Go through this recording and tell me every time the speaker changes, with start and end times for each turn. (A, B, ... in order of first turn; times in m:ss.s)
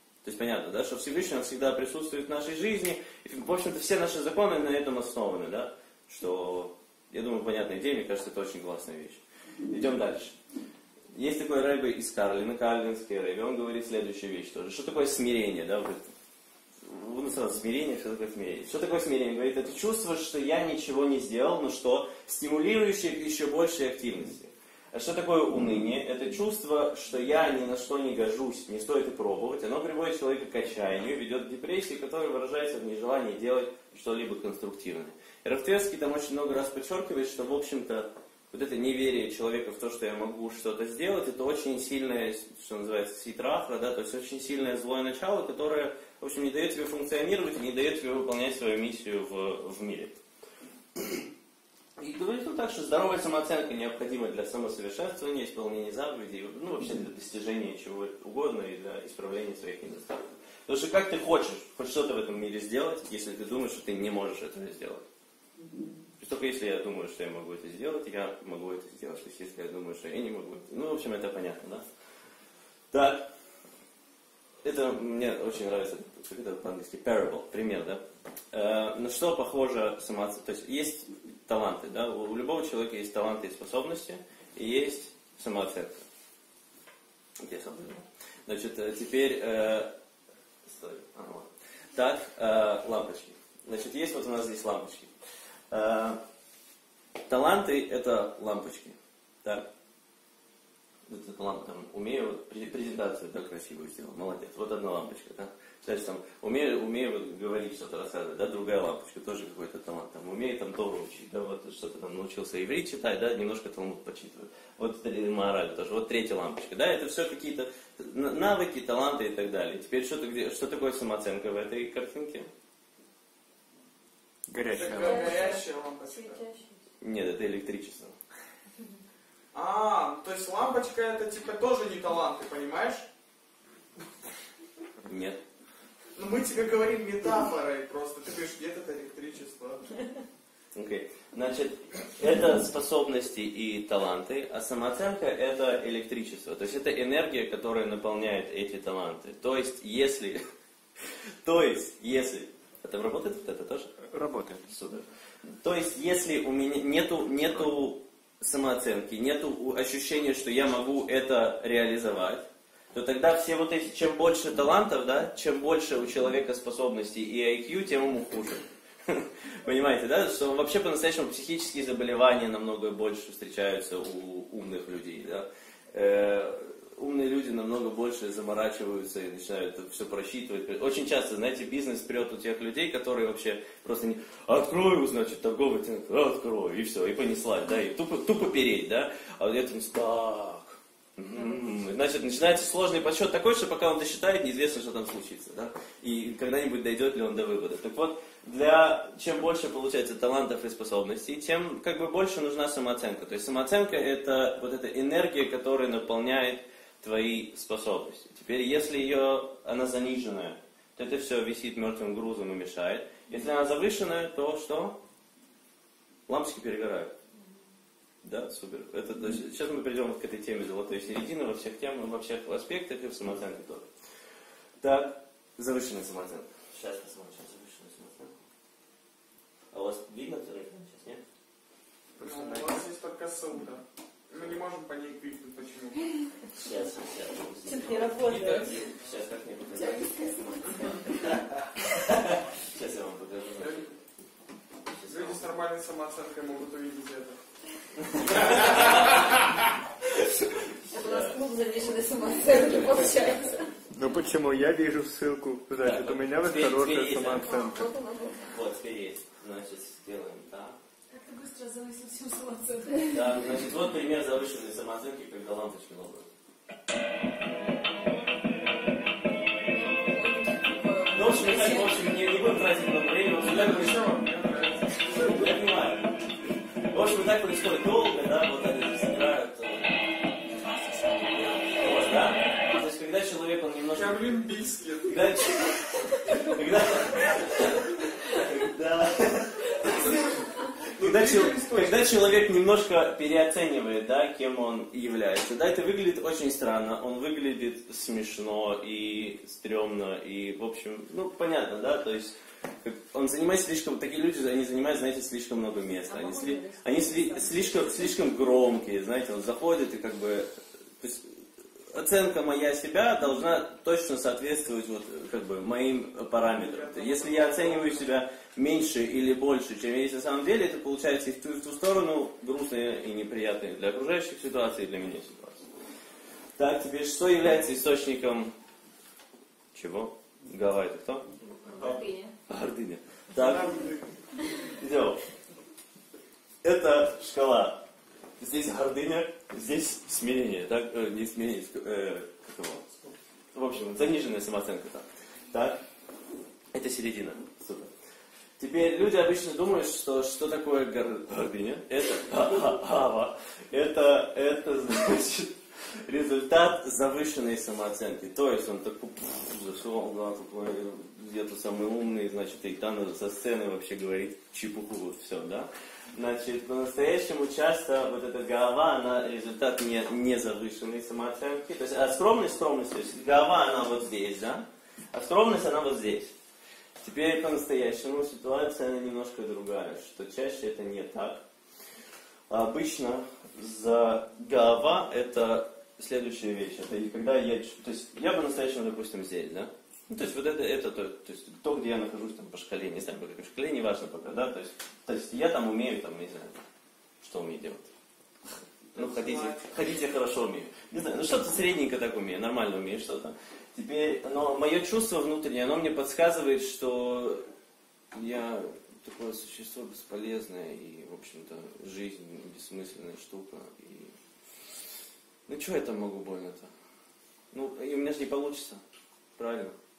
0:00.2-0:10.4 A
0:11.1-0:16.0 A
0:16.8-0:50.2 A
0:52.0-1:05.0 A
1:06.2-1:11.8 A
1:12.9-1:13.3 A
1:14.6-1:26.0 A
1:27.4-1:29.9 A
1:30.7-1:35.1 A
1:35.7-1:36.2 A
1:37.3-1:39.7 A
1:41.1-2:02.5 A
2:04.5-2:05.4 B
2:04.7-2:06.4 C
2:04.8-2:06.7 D
2:07.0-2:08.2 A
2:09.5-2:13.1 C
2:15.1-2:15.4 A
2:16.2-2:19.9 C
2:20.8-2:30.4 A
2:31.4-2:33.9 A
2:34.1-2:34.6 B
2:34.7-2:35.1 A
2:35.6-3:35.0 A
3:36.3-3:37.1 A
3:38.2-3:43.9 A
3:44.8-3:48.4 A
3:49.7-3:51.2 A
3:52.2-3:52.8 B
3:52.2-3:56.1 C
3:56.6-4:00.1 A
3:57.7-3:58.8 D
3:59.7-4:01.3 D
4:01.2-4:03.9 A
4:03.6-4:03.9 C
4:04.9-4:05.5 A
4:05.1-4:07.4 C
4:08.0-4:09.3 A
4:10.8-4:11.4 A
4:10.9-4:13.8 D
4:14.0-4:17.9 B
4:15.8-4:17.6 A
4:17.5-4:18.5 D
4:18.5-4:20.8 A
4:21.1-4:23.1 E
4:23.1-4:26.3 A
4:29.7-4:32.1 D
4:31.1-4:34.1 A
4:33.4-4:35.4 C
4:35.1-4:36.1 A
4:36.9-4:40.0 A
4:40.5-4:42.1 D
4:41.8-4:44.3 A
4:43.9-4:45.2 C
4:45.1-4:50.2 A
4:49.8-4:52.3 C
4:51.0-5:10.5 A
5:06.1-5:08.2 D
5:11.0-5:11.4 A
5:11.9-5:25.7 A
5:16.5-5:18.1 C
5:26.6-5:28.5 A
5:29.7-5:31.3 A
5:31.7-5:32.3 D
5:32.5-5:33.9 A
5:33.3-5:34.1 C
5:34.8-5:35.2 A
5:36.6-5:37.8 A
5:38.4-5:42.8 A
5:43.5-5:45.8 A
5:46.7-5:47.9 A
5:48.6-5:55.5 A
5:56.1-6:16.3 A
6:17.0-6:21.4 A
6:22.5-6:36.6 A
6:37.2-6:37.9 A
6:38.9-6:47.5 A
6:39.0-6:39.7 C
6:48.1-6:54.1 A
6:55.5-6:56.7 A
6:57.5-6:58.8 A
6:59.4-6:59.8 A